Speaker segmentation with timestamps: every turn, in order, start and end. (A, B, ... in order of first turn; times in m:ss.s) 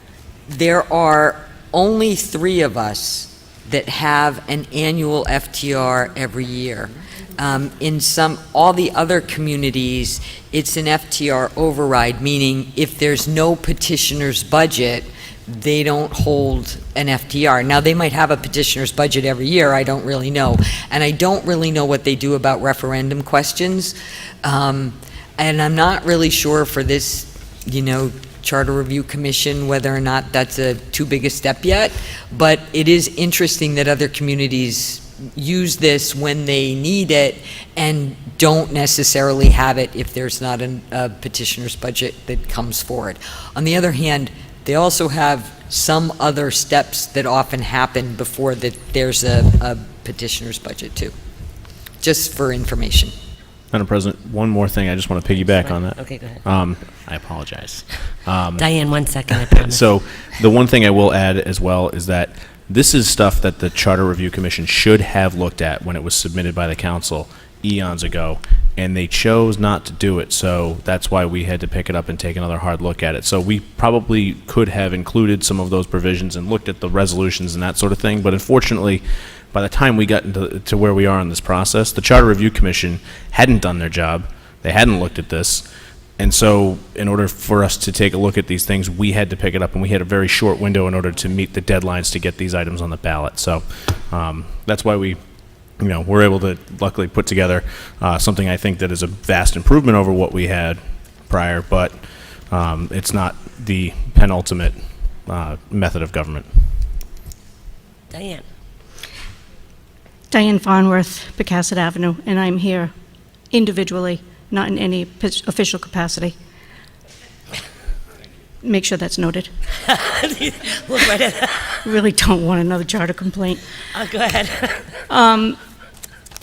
0:00.5-0:51.1 A
0:52.0-0:53.1 A
0:53.7-0:58.7 B
0:55.4-0:56.4 C
0:58.6-0:59.9 C
0:59.6-1:25.6 B
1:26.2-1:35.2 B
1:35.8-1:42.0 B
1:42.5-1:46.5 B
1:48.1-1:48.4 C
1:50.3-1:52.9 D
1:53.5-1:56.3 D
1:58.6-1:59.5 D
1:59.8-2:01.8 C
2:01.8-2:03.6 D
2:03.9-2:04.9 C
2:05.1-2:05.6 D